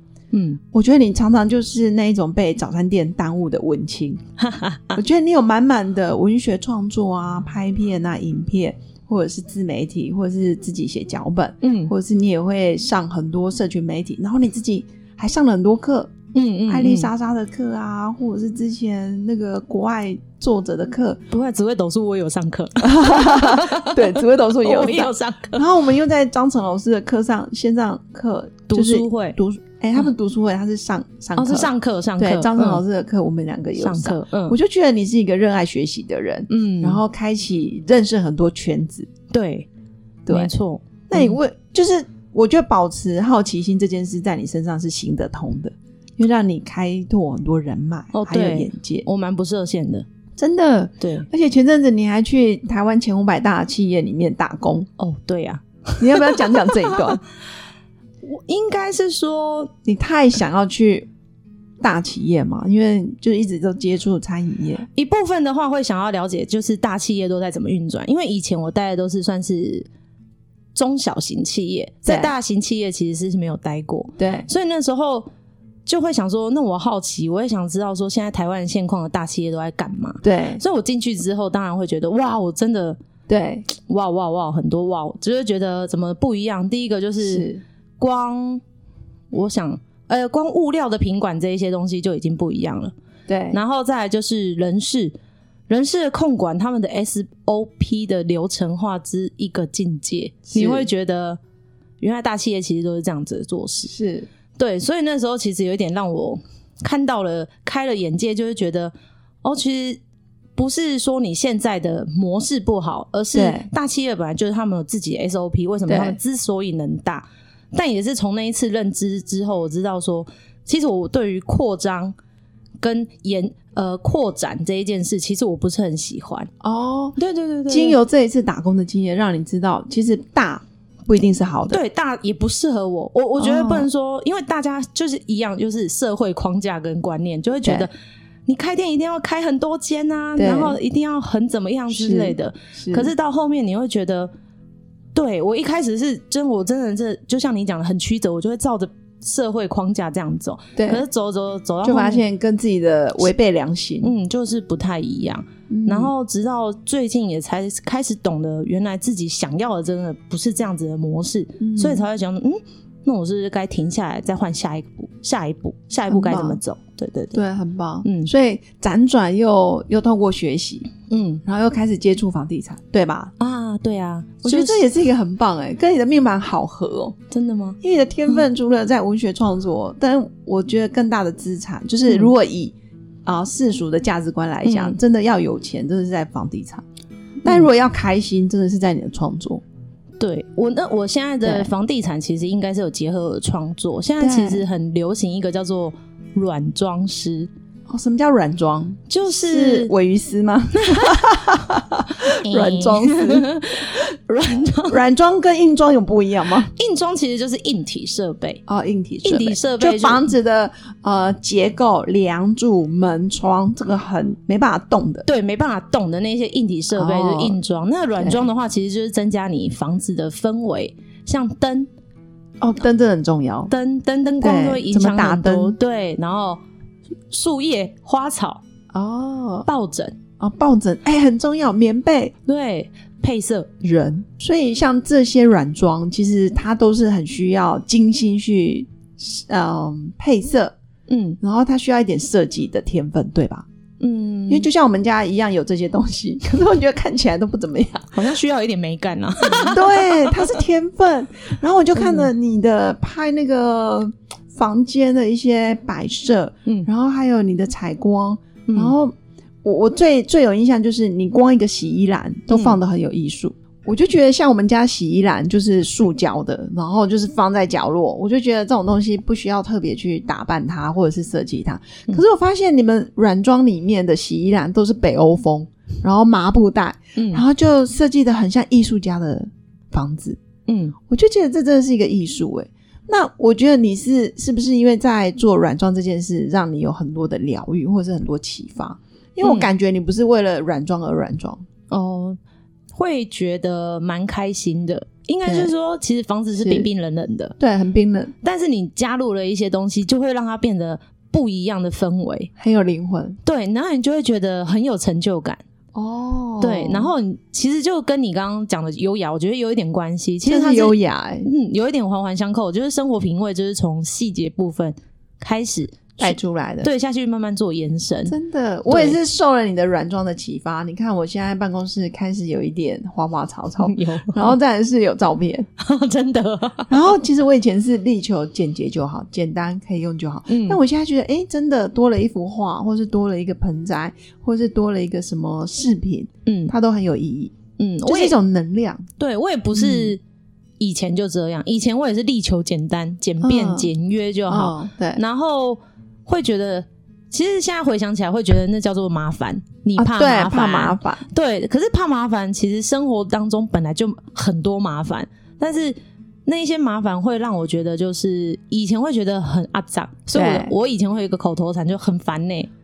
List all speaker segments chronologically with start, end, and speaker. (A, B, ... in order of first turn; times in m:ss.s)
0:00.3-0:00.6 A
0:00.7-0:04.2 B
0:04.4-0:05.0 A
0:05.0-0:16.1 B
0:11.6-0:11.9 A
0:16.3-0:17.1 A
0:16.7-0:21.2 B
0:21.3-0:25.7 A
0:22.8-0:39.1 B
0:28.7-0:29.4 A
0:31.4-0:32.8 A
0:33.8-0:34.6 A
0:36.5-0:37.0 A
0:39.3-0:39.7 A
0:40.3-0:40.5 B
0:40.3-0:41.4 A
0:41.1-0:49.1 B
0:48.1-0:50.1 A
0:50.4-0:54.9 B
0:51.0-0:51.3 A
0:55.0-0:57.2 A
0:56.0-0:57.2 B
0:58.2-0:59.7 A
0:59.9-1:01.1 B
1:01.8-1:04.9 B
1:04.9-1:09.9 A
1:10.7-1:15.3 A
1:12.0-1:12.3 B
1:14.2-1:14.5 B
1:15.9-1:23.0 A
1:20.2-1:20.6 B
1:23.3-1:23.7 B
1:23.7-1:28.6 A
1:27.2-1:27.6 B
1:29.3-1:32.9 A
1:33.3-1:33.6 B
1:33.5-1:35.2 A
1:35.7-1:41.4 A
1:40.5-1:40.9 B
1:42.0-1:43.9 A
1:43.9-1:44.3 B
1:44.6-1:50.0 A
1:50.6-2:02.2 A
1:53.3-1:53.7 B
1:55.9-1:56.2 B
2:02.8-2:06.5 A
2:06.6-2:07.2 B
2:07.2-2:08.0 A
2:07.7-2:11.8 B
2:11.7-2:17.9 A
2:13.4-2:13.9 B
2:17.6-2:17.9 B
2:18.5-2:24.3 A
2:20.4-2:20.8 B
2:21.9-2:23.1 B
2:25.1-2:32.2 A
2:30.8-2:31.0 B
2:31.8-2:34.2 B
2:34.0-2:47.4 A
2:35.7-2:36.1 B
2:41.6-2:42.1 B
2:46.1-2:46.6 B
2:47.3-2:50.9 B
2:48.0-2:48.3 A
2:51.1-2:51.4 A
2:51.5-2:53.3 B
2:53.4-2:54.9 A
2:54.4-2:57.2 B
2:57.3-2:58.4 A
2:57.8-3:02.8 B
3:03.3-3:06.8 B
3:04.6-3:05.0 A
3:07.4-3:09.6 B
3:10.2-3:17.5 A
3:11.4-3:11.7 B
3:14.2-3:14.7 B
3:17.9-3:23.5 B
3:19.1-3:19.9 A
3:20.8-3:21.4 A
3:22.4-3:25.0 A
3:24.9-3:26.7 B
3:26.7-3:28.6 A
3:28.7-3:35.3 B
3:29.2-3:30.3 A
3:35.2-3:41.9 A
3:36.9-3:37.6 B
3:38.2-3:38.4 B
3:42.6-3:43.7 B
3:43.7-3:46.6 A
3:44.3-3:45.8 B
3:47.3-3:48.6 A
3:48.9-3:49.7 B
3:49.7-3:50.2 A
3:50.4-3:52.3 B
3:52.4-3:53.7 A
3:53.8-4:00.8 B
4:01.1-4:01.4 A
4:01.4-4:03.7 B
4:04.0-4:04.7 A
4:04.5-4:08.2 B
4:08.1-4:10.5 A
4:09.5-4:40.4 B
4:12.0-4:12.3 A
4:18.7-4:19.0 A
4:22.5-4:22.8 A
4:37.2-4:37.4 A
4:40.7-4:41.0 A
4:41.1-4:51.6 B
4:49.4-4:49.7 A
4:51.9-4:52.4 A
4:52.9-4:57.6 A
4:55.4-4:55.7 B
4:56.5-4:56.9 B
4:57.6-4:58.3 B
4:58.4-5:02.5 A
5:02.6-5:03.4 B
5:03.4-5:05.6 A
5:05.9-5:07.1 B
5:06.6-5:18.4 A
5:10.4-5:11.5 B
5:16.2-5:16.9 B
5:18.3-5:25.7 B
5:18.9-5:19.2 A
5:23.8-5:24.6 A
5:25.8-5:27.0 A
5:26.9-5:39.0 B
5:30.5-5:30.8 A
5:36.5-5:36.7 A
5:37.8-5:38.4 A
5:39.2-5:40.2 A
5:39.7-5:40.2 B
5:40.8-6:02.7 A
5:43.4-5:43.9 B
5:44.5-5:45.2 B
5:50.0-5:51.2 B
6:00.3-6:00.7 B